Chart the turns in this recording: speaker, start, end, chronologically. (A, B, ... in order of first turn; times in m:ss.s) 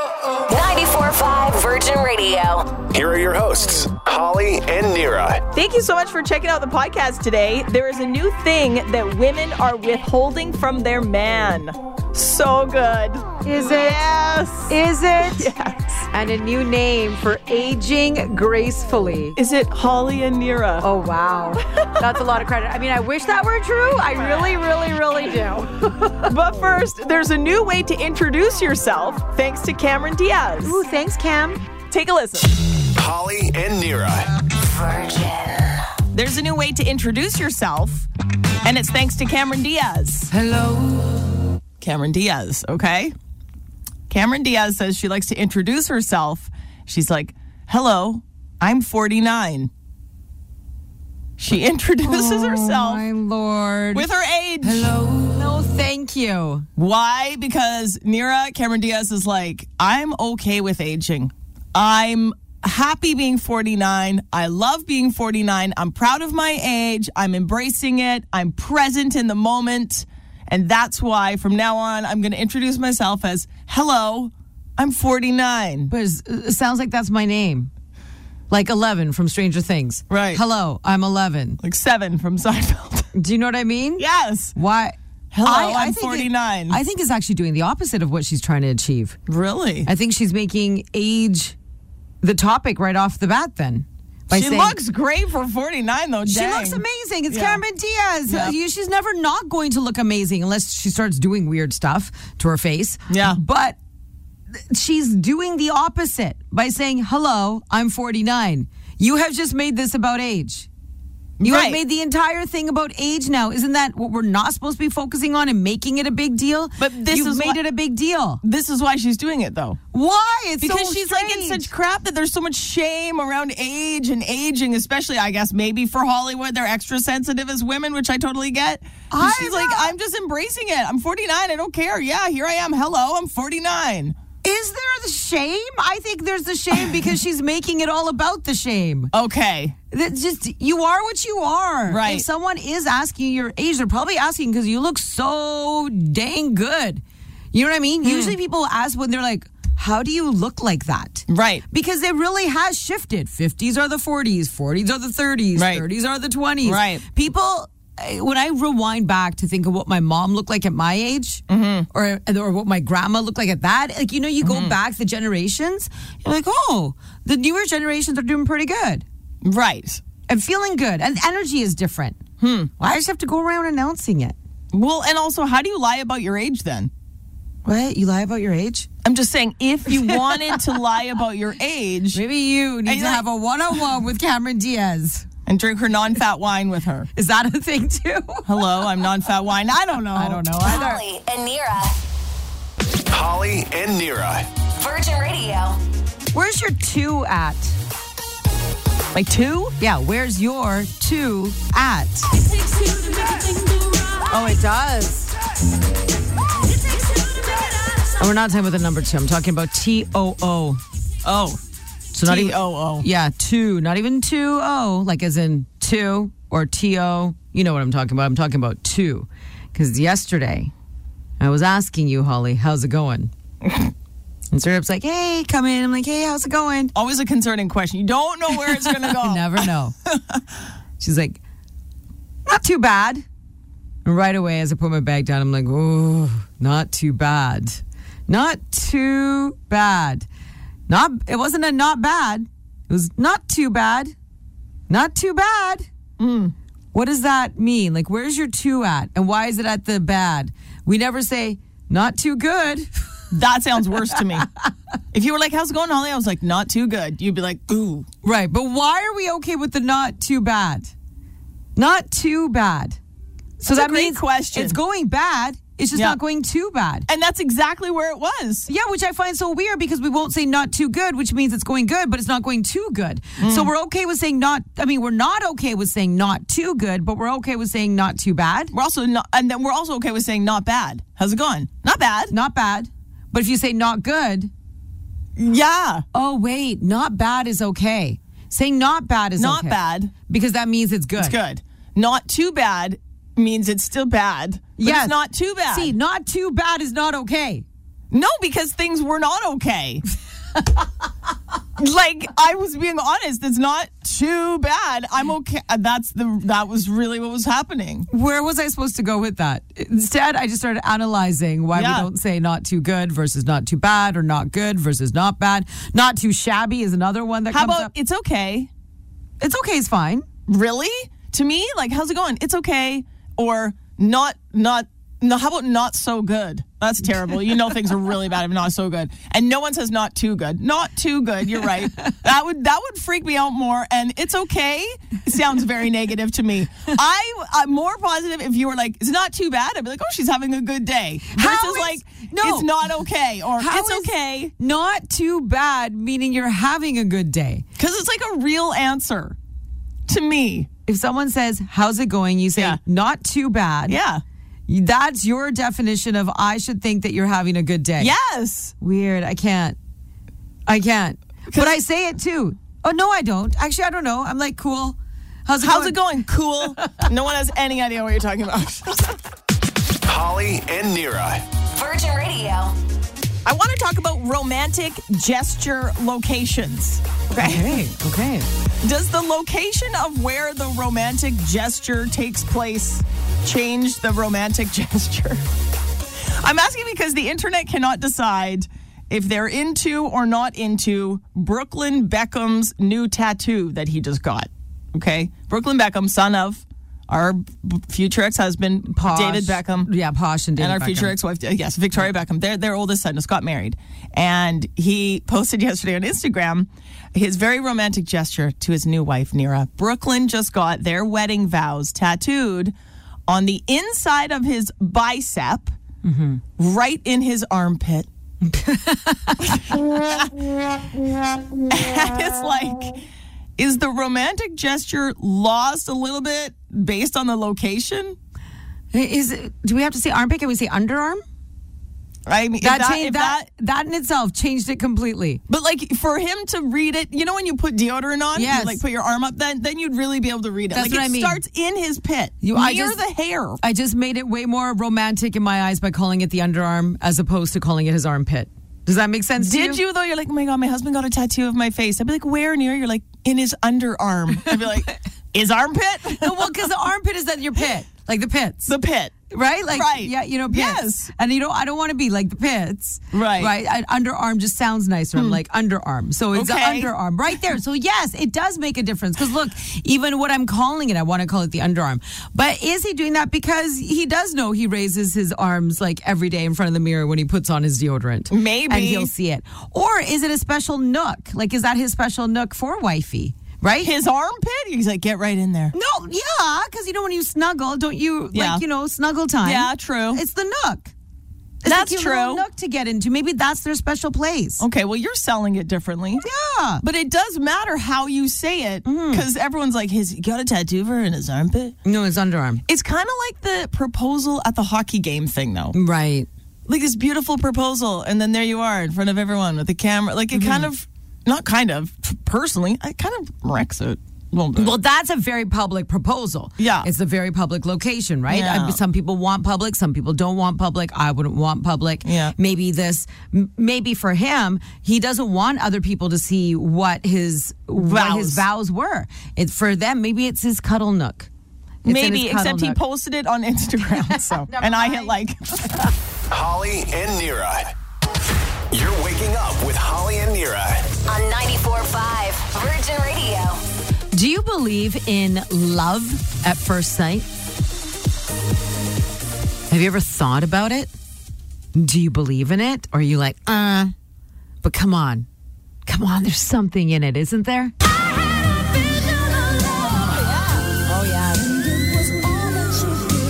0:00.5-0:02.8 A
0:02.9-0:05.4 B
0:05.5-0:16.0 C
0:13.4-0:14.0 D
0:14.7-0:15.5 D
0:16.1-0:19.4 D
0:19.4-0:20.8 C
0:20.8-0:26.3 D
0:21.6-0:22.0 C
0:24.1-0:24.6 C
0:26.2-0:30.8 C
0:30.6-0:31.6 D
0:31.9-0:32.5 C
0:33.0-0:34.3 B
0:34.6-0:35.8 A
0:36.1-0:38.1 C
0:38.6-0:40.3 C
0:40.3-0:41.2 D
0:41.8-0:43.1 C
0:44.1-0:49.7 C
0:51.4-0:53.0 C
0:52.0-0:54.0 D
0:53.9-0:54.9 C
0:54.6-0:56.7 D
0:56.8-1:15.9 C
1:15.9-1:17.7 D
1:18.5-1:21.6 D
1:20.1-1:20.4 C
1:21.6-1:23.1 C
1:23.1-1:29.2 D
1:24.0-1:24.5 C
1:25.3-1:26.8 C
1:29.3-1:29.9 C
1:29.8-1:31.6 D
1:32.2-1:34.8 D
1:34.3-1:37.6 C
1:36.2-1:43.8 D
1:38.3-1:38.5 C
1:43.1-1:43.4 C
1:44.7-1:50.7 D
1:51.4-1:51.8 C
1:51.4-1:58.4 D
1:56.8-1:57.6 C
1:58.4-1:59.8 C
1:59.9-2:01.7 D
2:00.6-2:14.1 C
2:09.1-2:09.9 D
2:14.4-2:19.1 D
2:16.7-2:17.0 C
2:19.1-2:19.7 C
2:19.9-2:49.0 D
2:21.9-2:22.3 C
2:28.0-2:28.3 C
2:31.3-2:31.6 C
2:35.5-2:35.8 C
2:36.6-2:37.0 C
2:41.5-2:41.9 C
2:44.4-2:44.8 C
2:49.4-2:50.0 C
2:50.3-2:52.2 D
2:52.4-2:52.7 C
2:52.8-2:54.3 D
2:54.7-2:56.9 C
2:57.6-2:58.9 D
2:59.0-3:02.2 C
2:59.9-3:00.6 D
3:02.1-3:05.2 D
3:02.8-3:03.2 C
3:05.4-3:07.1 C
3:07.2-3:08.6 D
3:08.4-3:10.8 C
3:10.1-3:11.0 D
3:10.6-3:12.0 A
3:13.1-3:14.4 B
3:14.8-3:15.8 A
3:16.3-3:17.8 D
3:19.1-3:19.8 C
3:19.8-3:22.3 D
3:24.3-3:25.3 D
3:28.2-3:30.8 D
3:31.2-3:31.6 C
3:32.1-3:40.7 D
3:32.2-3:33.0 C
3:41.4-3:43.3 D
3:43.6-3:43.9 C
3:44.5-3:46.9 D
3:46.9-3:50.4 C
3:48.6-3:49.9 D
3:51.0-3:51.4 D
3:52.5-3:53.2 D
3:54.0-4:00.2 D
4:00.9-4:04.1 D
4:04.9-4:05.9 D
4:06.2-4:06.5 C
4:06.9-4:12.9 D
4:13.3-4:14.5 C
4:15.1-4:18.1 C
4:18.2-4:20.9 D
4:21.8-4:23.0 D
4:23.6-4:27.1 D
4:23.7-4:24.8 C
4:25.9-4:26.2 C
4:27.1-4:28.7 C
4:28.7-4:38.7 D
4:33.4-4:33.7 C
4:38.7-4:42.3 C
4:42.3-4:44.5 D
4:45.4-4:46.0 C
4:46.1-4:51.4 D
4:49.4-4:50.1 C
4:51.2-4:55.9 C
4:54.8-4:57.6 D
4:58.1-5:00.0 C
5:01.8-5:08.1 C
5:08.1-5:17.9 D
5:11.7-5:12.1 C
5:17.5-5:18.7 C
5:19.4-5:20.2 D
5:20.5-5:44.5 C
5:41.3-5:42.7 D
5:43.6-5:47.6 D
5:47.8-5:49.4 C
5:50.1-5:50.7 C
5:50.8-5:54.0 D
5:52.5-5:52.8 C
5:53.9-5:54.2 C
5:54.7-5:58.1 D
5:58.0-5:58.7 C
5:58.8-5:59.8 D
6:00.7-6:06.0 D
6:01.5-6:01.8 C
6:05.6-6:09.2 C
6:10.0-6:11.4 B
6:11.7-6:12.7 A
6:13.4-6:17.8 C
6:17.4-6:18.4 D
6:18.8-6:25.4 C
6:26.2-6:39.9 C
6:38.9-6:41.1 D
6:40.6-6:52.7 C
6:53.3-6:55.7 C
6:56.0-6:56.4 D
6:56.6-6:58.1 C
6:58.4-6:59.6 D
7:00.0-7:00.3 C
7:01.7-7:03.0 C
7:03.6-7:08.2 C
7:08.9-7:11.2 D
7:12.2-7:13.5 C
7:12.6-7:15.4 D
7:15.5-7:23.6 C
7:18.3-7:18.8 D
7:20.7-7:21.4 D
7:22.4-7:23.0 D
7:23.6-7:29.8 D
7:29.4-7:36.6 C
7:36.2-7:38.7 D
7:38.7-7:39.1 C
7:39.3-8:03.9 D
7:39.7-7:41.1 C
7:43.1-7:43.5 C
7:45.1-7:45.4 C
7:46.3-7:46.9 C
7:58.3-7:59.1 C
8:03.8-8:05.7 C
8:05.7-8:10.9 D
8:08.3-8:08.6 C
8:09.4-8:10.2 C
8:11.6-8:14.6 D
8:11.6-8:12.4 C
8:14.6-8:16.2 C
8:16.2-8:16.8 D
8:16.8-8:21.8 C
8:18.8-8:19.2 D
8:21.8-8:22.6 D
8:22.7-8:25.8 C
8:25.7-8:26.3 D
8:26.7-8:34.8 C
8:30.3-8:30.7 D
8:34.6-8:51.3 D
8:36.6-8:36.9 C
8:38.3-8:38.8 C
8:42.0-8:42.3 C
8:47.8-8:48.4 C
8:51.8-8:52.8 D
8:51.8-8:55.8 C
8:53.9-8:55.2 D
8:56.3-8:57.7 B
8:58.7-9:00.9 B
9:01.1-9:03.6 A
9:04.1-9:07.2 D
9:09.7-9:10.9 D
9:11.7-9:13.9 D
9:14.6-9:15.3 D
9:15.8-9:17.7 D
9:20.0-9:20.6 C
9:20.8-9:21.6 D